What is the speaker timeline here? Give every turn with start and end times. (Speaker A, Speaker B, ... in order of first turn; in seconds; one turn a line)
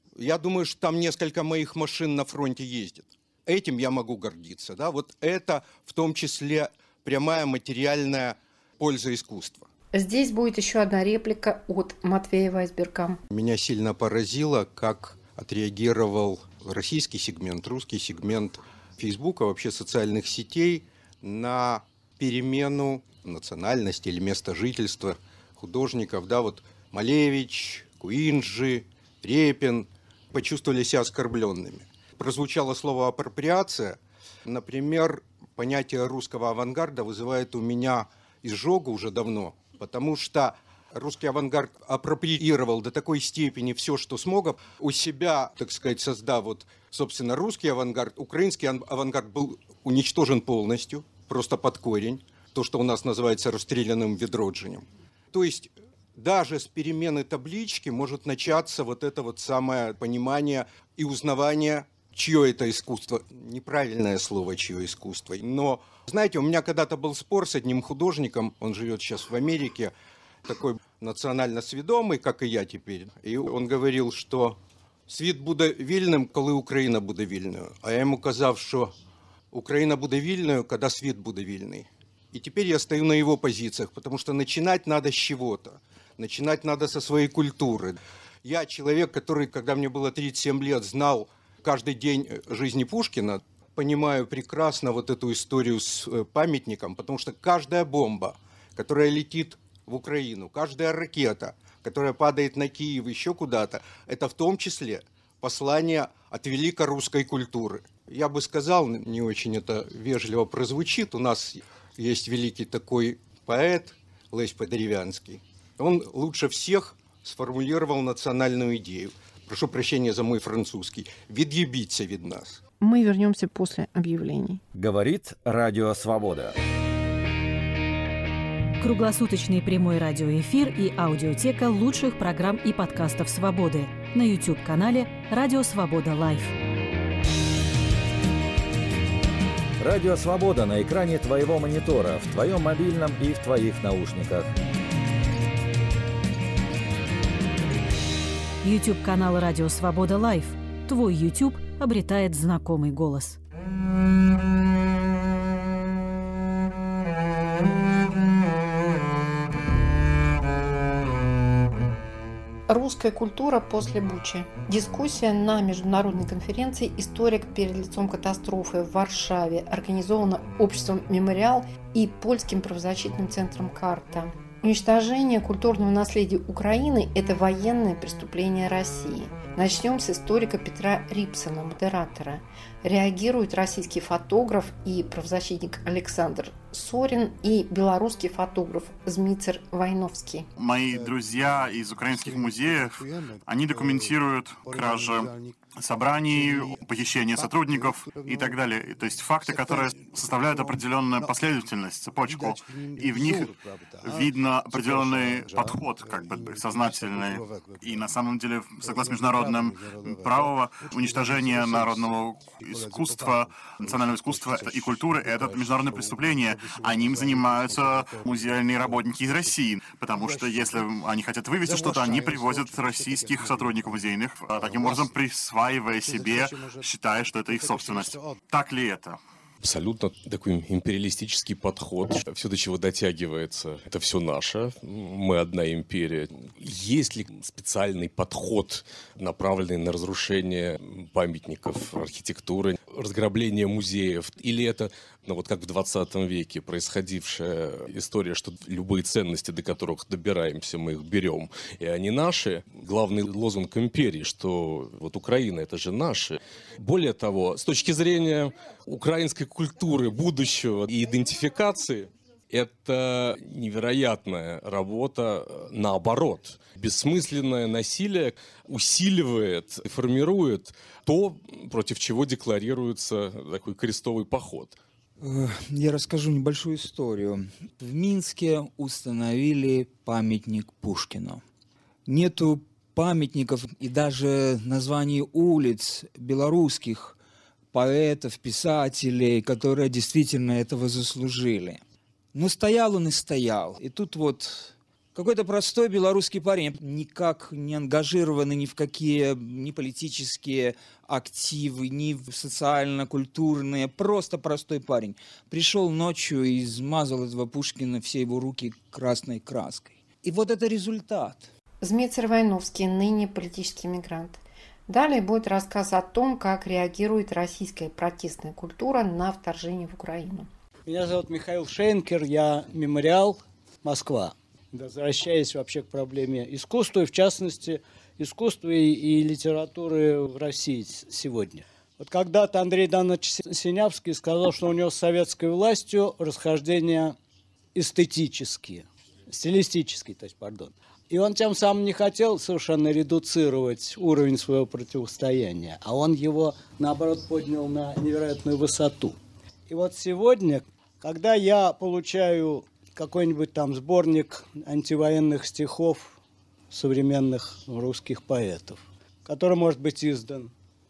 Speaker A: 0.2-9.7
Speaker B: 9.9-13.2
Speaker A: 13.3-69.9
Speaker A: 70.4-78.9
Speaker A: 79.5-122.6
Speaker B: 122.8-124.6
Speaker C: 124.7-126.5
Speaker D: 128.8-136.5
Speaker C: 139.8-144.5
Speaker D: 148.6-153.4
Speaker B: 162.7-190.5
Speaker E: 190.6-229.2
Speaker F: 229.6-274.8
Speaker G: 275.2-281.4
Speaker G: 282.1-287.2
Speaker G: 287.7-291.8
Speaker G: 292.3-311.5
Speaker B: 311.8-320.5
Speaker H: 320.9-337.1
Speaker H: 337.7-349.2
Speaker H: 349.7-356.2
Speaker H: 356.7-360.5